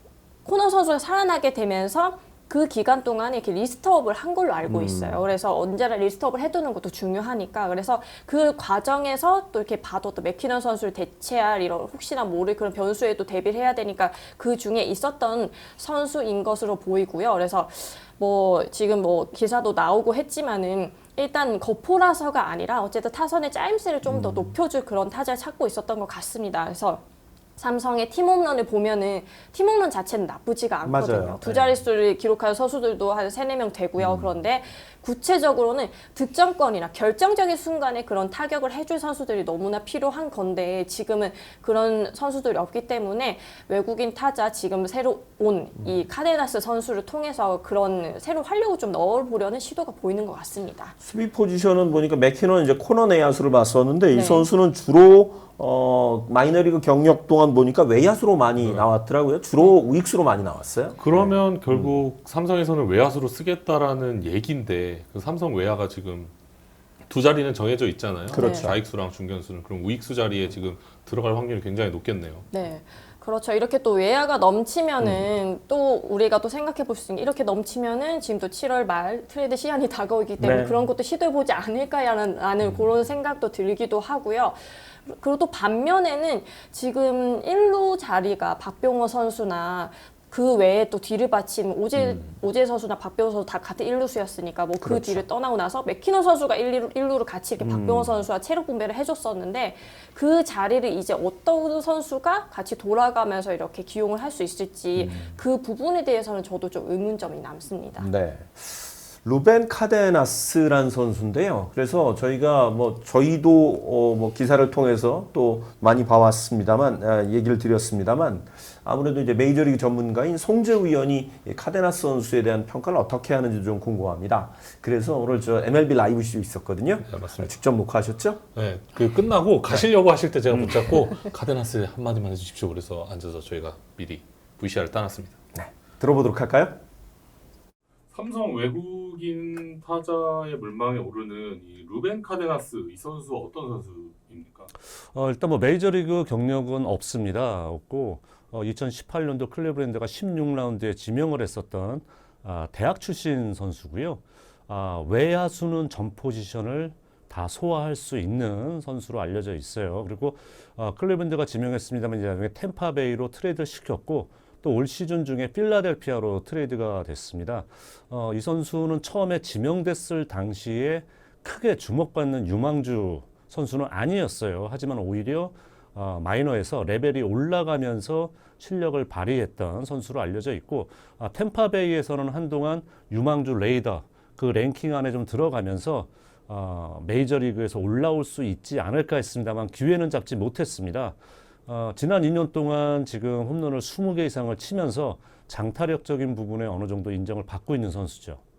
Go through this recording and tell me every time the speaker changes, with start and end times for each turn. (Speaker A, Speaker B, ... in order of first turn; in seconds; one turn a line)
Speaker A: 0.4-27.0
Speaker B: 4.7-5.3
Speaker B: 24.1-24.6
Speaker A: 27.6-50.9
Speaker B: 30.8-31.8
Speaker B: 34.0-34.4
Speaker B: 51.0-62.0
Speaker A: 54.1-54.5
Speaker C: 58.6-58.9
Speaker C: 61.0-66.3
Speaker C: 67.1-72.5
Speaker B: 68.3-68.8
Speaker A: 68.3-68.7
Speaker A: 72.5-108.1
Speaker B: 80.4-80.8
Speaker B: 92.0-92.2
Speaker B: 94.8-95.2
Speaker B: 97.6-98.2
Speaker B: 105.0-105.4
Speaker B: 108.0-128.4
Speaker C: 127.0-127.5
Speaker C: 128.6-135.4
Speaker B: 135.6-136.8
Speaker C: 138.1-144.7
Speaker D: 145.1-198.4